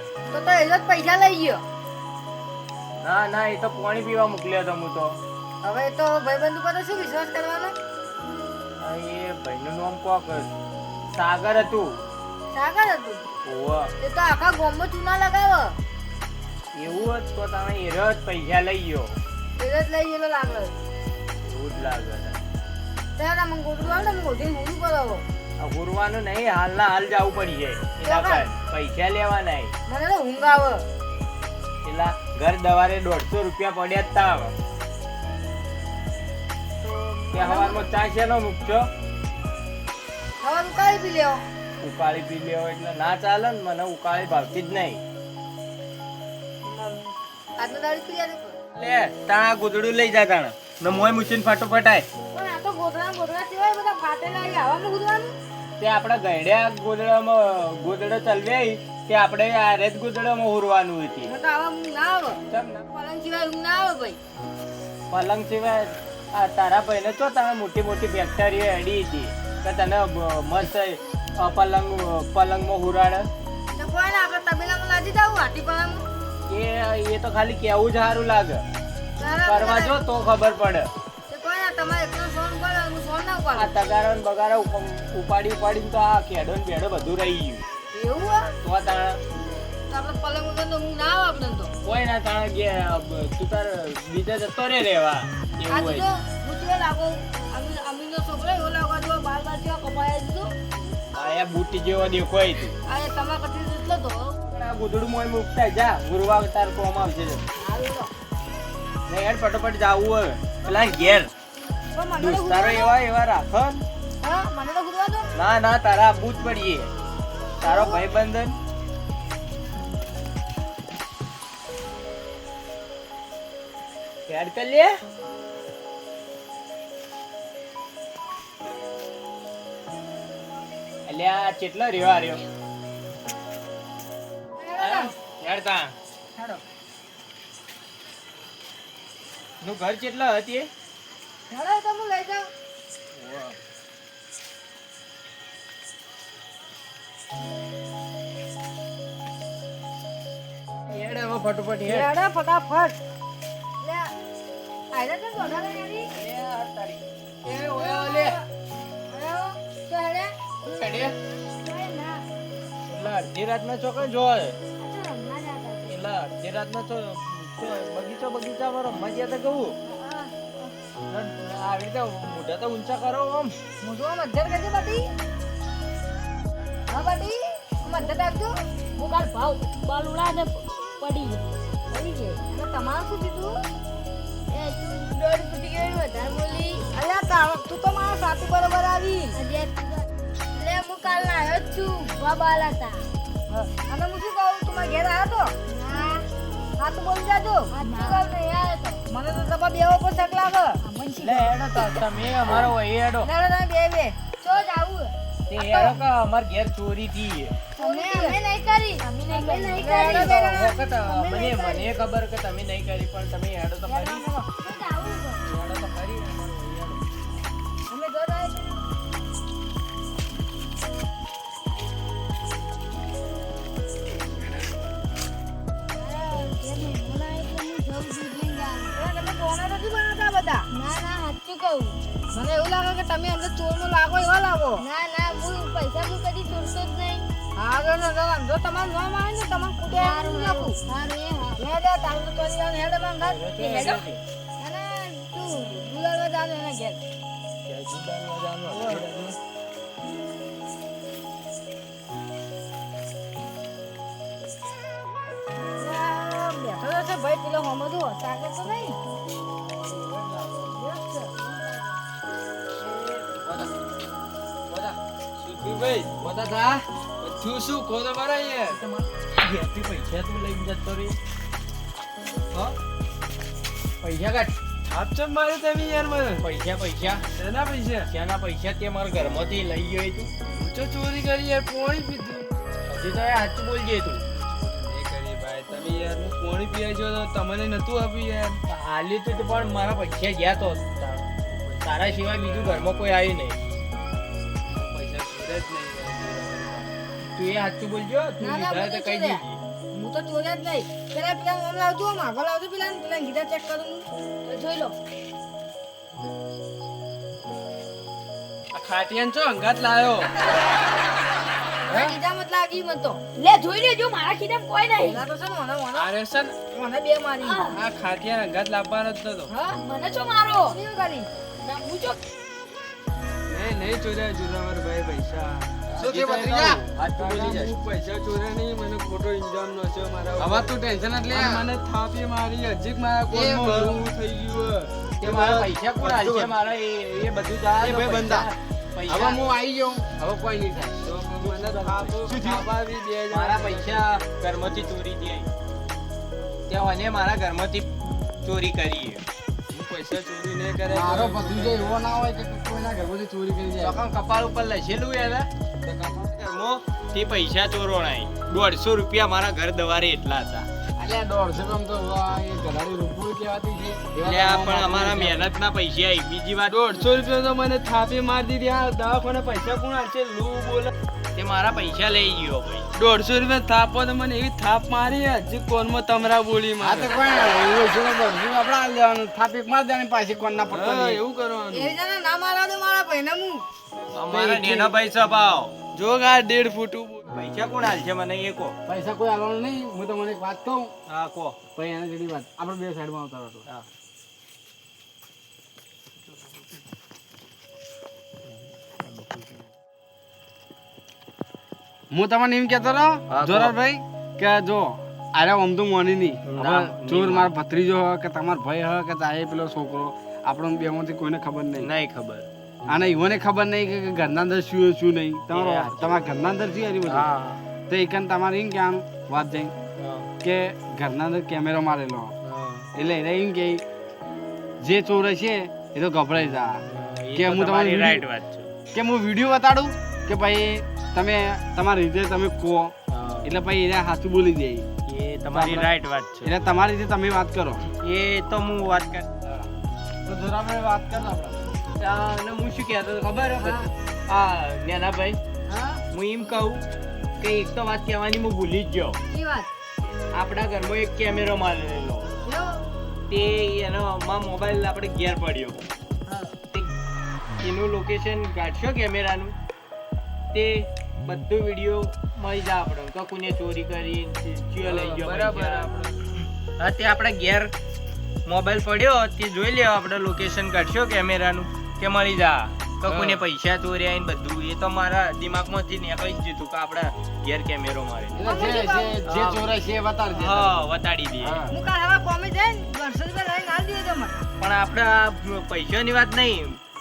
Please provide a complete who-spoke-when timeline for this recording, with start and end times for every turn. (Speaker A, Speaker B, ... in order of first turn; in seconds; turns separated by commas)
Speaker A: 0.3-1.6, Speaker B: 3.0-5.2, Speaker A: 5.6-7.7, Speaker B: 8.8-10.5, Speaker B: 11.1-12.0, Speaker A: 12.5-13.2, Speaker B: 13.4-13.9, Speaker A: 14.0-15.8, Speaker B: 16.7-19.2, Speaker A: 19.6-20.7, Speaker B: 21.4-22.4, Speaker A: 23.1-25.2, Speaker B: 25.6-29.7, Speaker A: 28.0-28.5, Speaker A: 29.9-30.8, Speaker B: 31.8-34.5, Speaker A: 36.8-38.0, Speaker B: 37.3-38.9, Speaker A: 40.4-41.4, Speaker B: 41.8-45.0, Speaker A: 46.6-48.6, Speaker B: 48.7-52.1, Speaker A: 52.3-55.3, Speaker B: 55.8-61.3, Speaker A: 61.3-64.2, Speaker B: 62.5-62.8, Speaker B: 65.1-73.3, Speaker A: 73.8-76.0, Speaker B: 76.5-78.6, Speaker A: 79.2-80.0, Speaker B: 79.5-80.9, Speaker A: 81.3-83.7, Speaker B: 83.5-87.6, Speaker A: 87.9-88.5, Speaker B: 88.6-89.2, Speaker A: 89.9-91.7, Speaker B: 91.8-96.1, Speaker A: 95.7-100.5, Speaker B: 101.1-102.7, Speaker A: 102.9-104.4, Speaker B: 104.5-107.4, Speaker A: 107.6-108.1, Speaker B: 109.1-111.3, Speaker A: 111.9-112.9, Speaker B: 112.2-113.8, Speaker A: 114.2-115.3, Speaker B: 115.3-116.9, Speaker B: 117.6-118.6, Speaker A: 117.6-118.0, Speaker B: 124.3-124.9, Speaker B: 131.1-132.4, Speaker A: 134.6-135.1, Speaker B: 134.8-135.9, Speaker A: 136.3-136.6, Speaker B: 139.6-140.7, Speaker A: 141.5-142.5, Speaker B: 143.1-143.6, Speaker B: 150.9-152.1, Speaker A: 151.8-153.0, Speaker A: 153.8-154.1, Speaker A: 154.9-156.1, Speaker B: 156.1-158.4, Speaker A: 157.7-158.4, Speaker A: 159.1-160.3, Speaker B: 160.7-161.1, Speaker C: 161.6-162.2, Speaker B: 162.9-164.6, Speaker C: 164.8-166.0, Speaker B: 165.8-169.7, Speaker C: 169.9-170.7, Speaker B: 171.1-173.6, Speaker A: 173.8-175.1, Speaker A: 176.9-178.5, Speaker C: 178.9-182.4, Speaker A: 182.4-183.5, Speaker C: 184.5-186.8, Speaker A: 186.9-189.4, Speaker C: 189.3-193.1, Speaker A: 193.5-195.5, Speaker C: 195.7-196.3, Speaker A: 196.8-198.4, Speaker C: 197.7-199.0, Speaker A: 199.1-200.8, Speaker C: 200.8-201.9, Speaker B: 201.2-203.3, Speaker A: 203.2-204.8, Speaker C: 204.4-205.1, Speaker B: 205.5-207.5, Speaker A: 205.6-206.0, Speaker C: 207.8-211.9, Speaker A: 207.8-208.4, Speaker A: 209.3-210.7, Speaker B: 209.9-214.2, Speaker A: 213.8-214.5, Speaker C: 214.6-215.4, Speaker B: 215.4-217.0, Speaker A: 217.9-218.8, Speaker C: 225.9-228.9, Speaker A: 228.9-230.7, Speaker C: 230.7-232.0, Speaker A: 232.3-234.8, Speaker C: 234.8-237.3, Speaker A: 237.6-240.8, Speaker C: 239.9-241.6, Speaker A: 241.6-244.0, Speaker B: 243.2-244.2, Speaker A: 244.6-247.0, Speaker B: 247.7-249.3, Speaker D: 248.7-249.1, Speaker A: 255.8-259.0, Speaker B: 259.7-260.7, Speaker A: 260.7-261.3, Speaker C: 261.3-262.0, Speaker B: 262.8-263.7, Speaker D: 265.4-266.2, Speaker B: 266.1-266.8, Speaker D: 267.2-268.8, Speaker B: 268.7-271.2, Speaker B: 274.0-274.5, Speaker D: 274.9-276.5, Speaker B: 276.4-277.2, Speaker D: 277.3-278.1, Speaker B: 278.1-280.3, Speaker D: 280.5-282.5, Speaker B: 282.9-284.2, Speaker D: 284.3-288.6, Speaker B: 288.7-291.3, Speaker D: 291.4-292.9, Speaker B: 291.8-293.6, Speaker D: 294.7-296.9, Speaker B: 297.3-299.6, Speaker A: 298.4-304.1, Speaker C: 304.4-304.9, Speaker D: 308.7-310.4, Speaker A: 311.8-313.2, Speaker D: 311.9-312.2, Speaker C: 313.4-315.2, Speaker A: 315.0-316.1, Speaker D: 315.9-316.6, Speaker A: 316.7-317.6, Speaker C: 317.4-317.8, Speaker D: 317.7-319.5, Speaker A: 319.5-319.8, Speaker C: 319.7-320.7, Speaker A: 320.7-321.3, Speaker C: 321.6-322.2, Speaker D: 323.5-326.2, Speaker B: 325.9-327.7, Speaker E: 326.0-326.8, Speaker D: 327.1-330.7, Speaker E: 330.4-331.7, Speaker D: 331.3-335.6, Speaker E: 333.3-334.0, Speaker B: 335.2-339.4, Speaker E: 336.0-336.4, Speaker D: 337.8-338.5, Speaker E: 339.1-341.0, Speaker D: 341.0-344.1, Speaker B: 341.4-342.2, Speaker E: 342.2-342.7, Speaker B: 343.3-345.5, Speaker B: 346.7-347.9, Speaker B: 348.4-349.2, Speaker D: 349.7-352.2, Speaker E: 350.9-354.0, Speaker B: 353.8-355.5, Speaker E: 355.8-356.1, Speaker B: 356.1-360.7, Speaker E: 361.0-365.5, Speaker B: 364.2-367.0, Speaker D: 366.6-370.9, Speaker B: 371.3-372.8, Speaker D: 372.9-377.1, Speaker E: 376.8-381.2, Speaker D: 380.7-381.9, Speaker A: 381.7-383.6, Speaker B: 384.1-385.7, Speaker D: 384.3-384.9, Speaker D: 385.9-387.3, Speaker B: 387.3-388.7, Speaker E: 388.9-390.9, Speaker B: 391.1-391.6, Speaker E: 391.7-393.7, Speaker B: 399.0-399.6, Speaker E: 402.1-411.9, Speaker B: 403.3-403.7, Speaker B: 406.5-407.5, Speaker B: 411.8-412.5, Speaker E: 412.9-417.3, Speaker B: 415.5-416.3, Speaker B: 417.0-417.6, Speaker E: 417.9-419.7, Speaker B: 420.0-420.3, Speaker E: 420.4-422.3, Speaker B: 422.4-422.9, Speaker E: 422.9-423.8, Speaker E: 424.8-426.7, Speaker B: 426.9-428.7, Speaker E: 427.3-428.2, Speaker E: 428.9-434.9, Speaker B: 433.1-433.6, Speaker B: 435.1-436.5, Speaker E: 435.5-435.9, Speaker E: 436.4-437.8, Speaker B: 438.0-439.3, Speaker E: 439.4-439.7, Speaker E: 440.2-441.6, Speaker B: 442.0-445.4, Speaker A: 443.6-443.9, Speaker A: 445.7-446.0, Speaker B: 446.1-446.8, Speaker B: 447.4-449.2, Speaker A: 449.3-449.7, Speaker B: 450.3-452.3, Speaker A: 452.4-452.8, Speaker B: 453.3-455.8, Speaker B: 457.6-459.5, Speaker B: 460.5-465.9, Speaker D: 464.8-466.2, Speaker B: 466.8-467.7, Speaker B: 468.4-478.4, Speaker E: 478.3-480.8, Speaker A: 478.4-479.2, Speaker B: 479.2-479.7, Speaker B: 480.3-481.6, Speaker E: 481.4-481.7, Speaker A: 481.7-484.4, Speaker B: 484.6-486.8